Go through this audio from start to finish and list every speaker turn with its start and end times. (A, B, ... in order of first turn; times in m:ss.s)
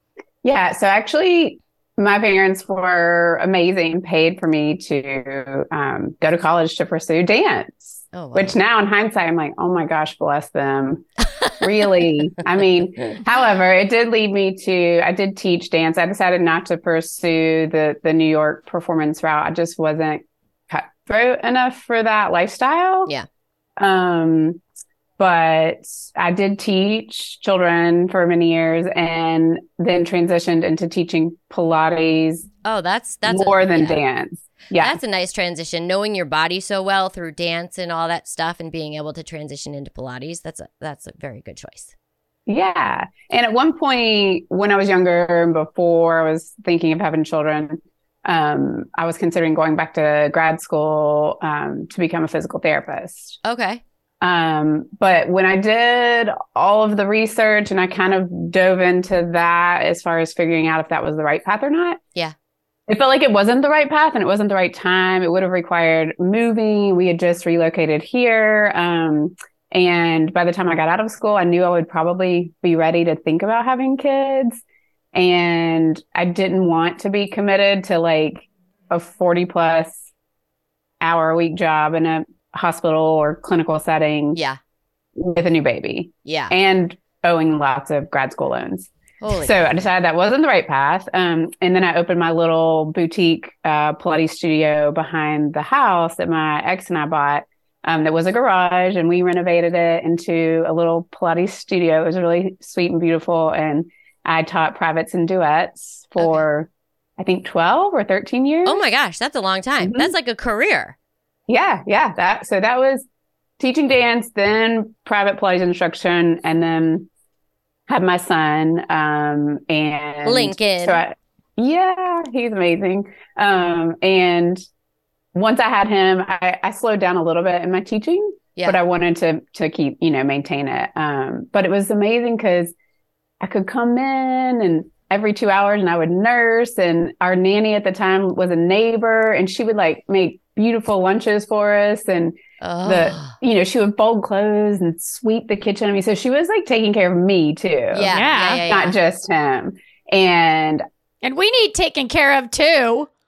0:00.4-0:11.1 A
0:08.1-0:08.6 B
0:11.6-0:23.1 A
0:23.8-0:24.6 A
0:25.2-0:32.5 A
0:32.6-0:34.0 B
0:33.2-0:35.0 A
0:34.8-0:41.9 B
0:42.5-0:53.4 A
0:53.4-0:53.8 B
0:54.2-1:02.0 A
1:02.9-1:14.6 A
1:15.1-1:20.1 A
1:21.0-1:24.4 A
1:24.3-1:24.6 B
1:25.2-1:48.8 A
1:26.2-1:26.5 B
1:29.2-1:29.6 B
1:48.7-1:51.0 B
1:49.8-1:50.1 A
1:51.5-1:53.1 A
1:53.6-1:57.1 A
1:57.9-2:04.6 A
2:00.2-2:01.0 B
2:05.3-2:12.7 A
2:13.4-2:28.2 A
2:22.6-2:23.4 B
2:27.9-2:29.0 B
2:28.1-2:28.6 C
2:28.7-2:30.8 A
2:31.2-2:33.1 C